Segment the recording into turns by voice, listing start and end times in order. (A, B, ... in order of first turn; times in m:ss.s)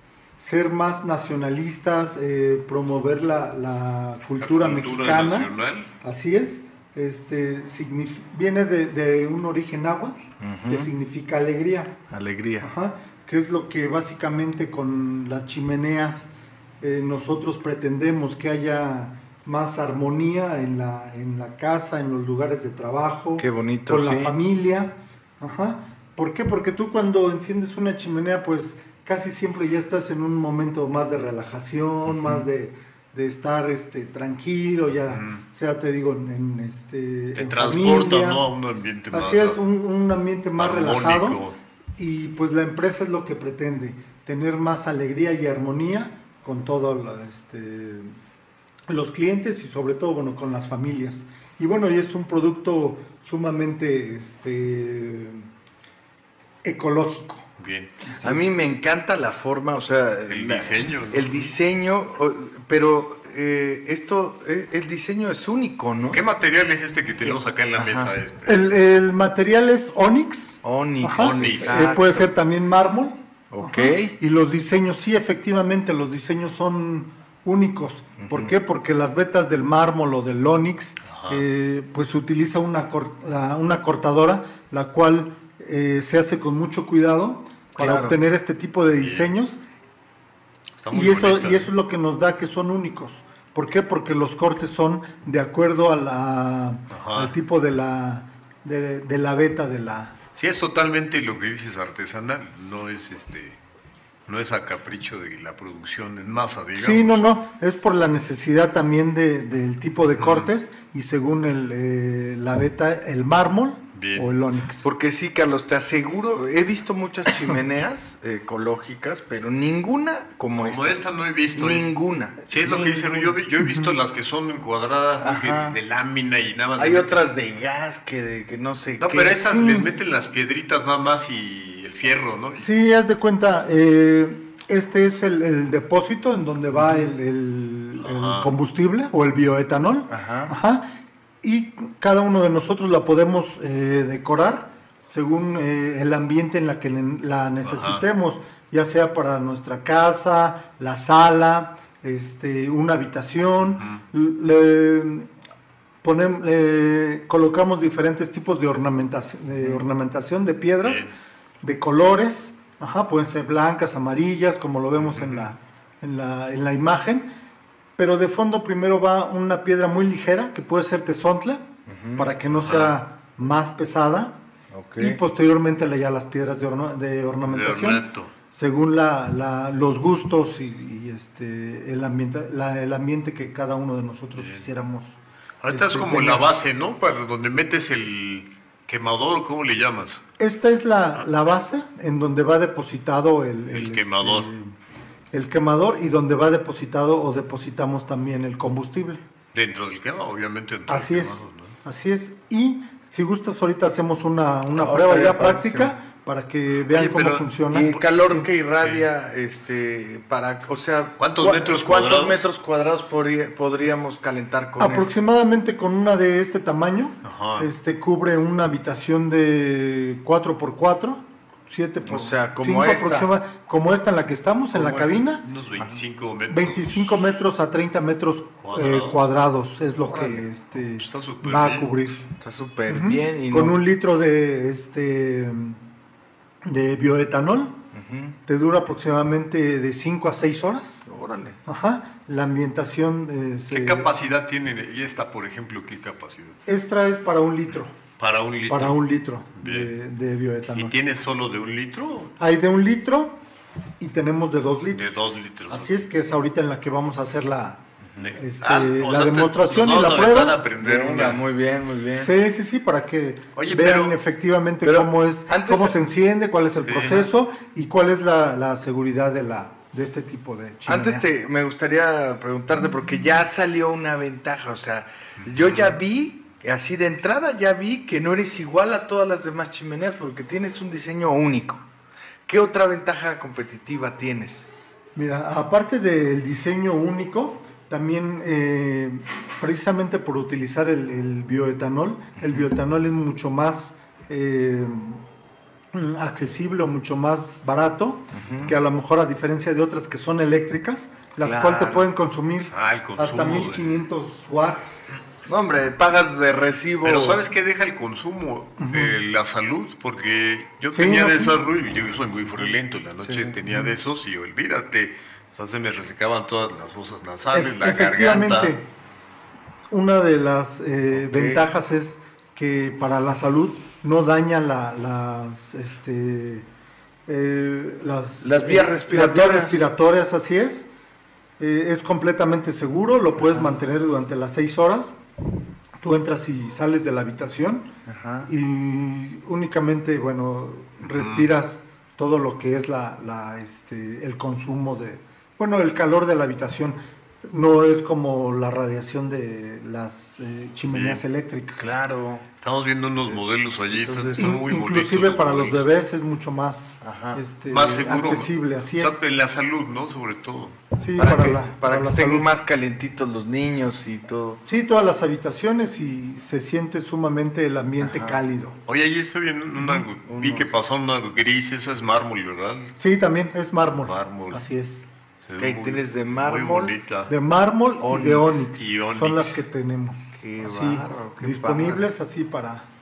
0:00.4-0:12.0 A
0:04.4-0:05.9 B
0:10.4-0:10.9 C
0:12.1-0:12.7 C
0:12.6-0:16.3 A
0:16.8-0:38.4 A
0:23.4-0:24.4 C
0:35.1-0:35.4 B
0:37.4-0:39.6 B
0:39.1-0:41.4 A
0:40.6-0:41.5 B
0:42.0-0:48.2 A
0:48.9-0:55.5 A
0:56.6-0:57.5 A
0:57.6-0:58.0 B
0:58.0-0:58.5 A
0:58.2-1:06.2 C
1:00.3-1:01.5 B
1:06.1-1:08.7 B
1:07.7-1:08.1 C
1:08.4-1:29.6 A
1:10.6-1:12.3 C
1:11.2-1:12.1 B
1:13.5-1:14.1 C
1:18.2-1:18.5 C
1:21.0-1:21.4 B
1:27.8-1:28.2 C
1:28.9-1:29.3 B
1:30.8-1:31.7 B
1:30.9-1:40.1 A
1:36.9-1:37.3 B
1:40.4-1:43.6 B
1:44.3-1:47.2 B
1:46.7-1:54.9 A
1:50.2-1:50.5 B
1:53.9-1:54.3 B
1:54.8-2:02.7 C
2:00.6-2:01.9 B
2:02.5-2:07.2 B
2:02.5-2:03.9 A
2:05.2-2:05.8 C
2:06.8-2:09.4 C
2:09.0-2:12.7 B
2:09.2-2:09.9 A
2:12.6-2:20.8 A
2:16.8-2:17.1 C
2:18.0-2:18.5 B
2:20.1-2:20.5 C
2:21.4-2:35.3 A
2:27.6-2:28.0 B
2:36.0-2:41.1 A
2:40.8-2:41.1 B
2:41.6-2:47.3 A
2:45.0-2:45.5 B
2:48.0-2:54.4 A
2:51.9-2:52.3 C
2:52.6-2:53.0 B
2:54.7-2:55.2 C
2:55.0-3:05.2 A
2:57.5-2:58.3 B
3:04.4-3:04.7 B
3:05.6-3:10.2 B
3:05.7-3:06.4 A
3:10.4-3:14.7 A
3:13.7-3:14.5 B
3:15.3-3:19.2 A
3:19.5-3:21.8 B
3:20.9-3:28.5 A
3:24.7-3:25.9 C
3:26.9-3:27.5 B
3:27.7-3:35.1 C
3:28.8-3:29.0 B
3:31.2-3:32.4 B
3:34.8-3:45.4 A
3:37.2-3:37.7 B
3:42.0-3:43.3 C
3:44.8-3:47.1 B
3:46.5-3:52.2 A
3:48.6-3:49.2 B
3:49.9-3:50.4 C
3:50.8-3:51.9 B
3:52.4-3:53.8 C
3:52.9-3:55.8 A
3:56.6-3:57.8 A
3:57.9-3:58.4 C
3:58.4-4:01.1 A
4:01.1-4:01.6 C
4:01.6-4:04.1 A
4:03.7-4:06.6 B
4:06.6-4:07.9 A
4:08.2-4:09.0 B
4:08.7-4:11.0 A
4:09.6-4:09.9 B
4:10.7-4:12.4 B
4:12.4-4:13.4 A
4:14.0-4:17.8 A
4:14.9-4:16.0 B
4:18.2-4:21.4 B
4:18.3-4:20.6 A
4:20.8-4:22.3 C
4:22.2-4:31.3 A
4:23.6-4:24.2 B
4:24.8-4:26.0 C
4:26.8-4:27.3 B
4:30.9-4:41.8 C
4:35.4-4:36.0 B
4:42.5-4:44.6 C
4:45.2-4:55.2 A
4:52.4-4:52.7 C
4:55.9-5:05.4 A
4:58.3-4:58.7 C
5:01.4-5:02.1 C
5:02.7-5:04.0 B
5:05.4-5:07.4 C
5:07.0-5:18.7 B
5:08.8-5:09.1 A
5:10.9-5:11.6 A
5:13.2-5:13.5 C
5:13.6-5:13.9 A
5:17.5-5:18.8 A
5:19.9-5:26.7 A
5:21.1-5:21.6 C
5:27.3-5:30.9 A
5:28.4-5:29.9 C
5:31.6-5:35.1 A
5:33.4-5:33.7 C
5:36.0-5:37.9 A
5:38.0-5:38.5 C
5:38.4-5:51.9 A
5:41.0-5:41.5 B
5:50.9-5:51.2 B
5:51.8-5:52.4 C
5:52.6-5:55.8 B
5:53.9-5:54.4 C
5:54.4-5:59.2 A
5:57.0-5:57.4 C
5:57.7-6:00.8 B
6:01.0-6:02.5 A
6:01.2-6:04.6 C
6:04.6-6:08.8 A
6:08.0-6:08.4 C
6:08.8-6:12.9 B
6:09.8-6:10.0 A
6:10.3-6:10.7 C
6:13.0-6:15.0 A
6:14.0-6:14.6 B
6:15.4-6:17.3 B
6:15.6-6:16.9 C
6:17.3-6:22.8 A
6:18.0-6:18.6 C
6:18.8-6:19.6 B
6:20.4-6:22.1 C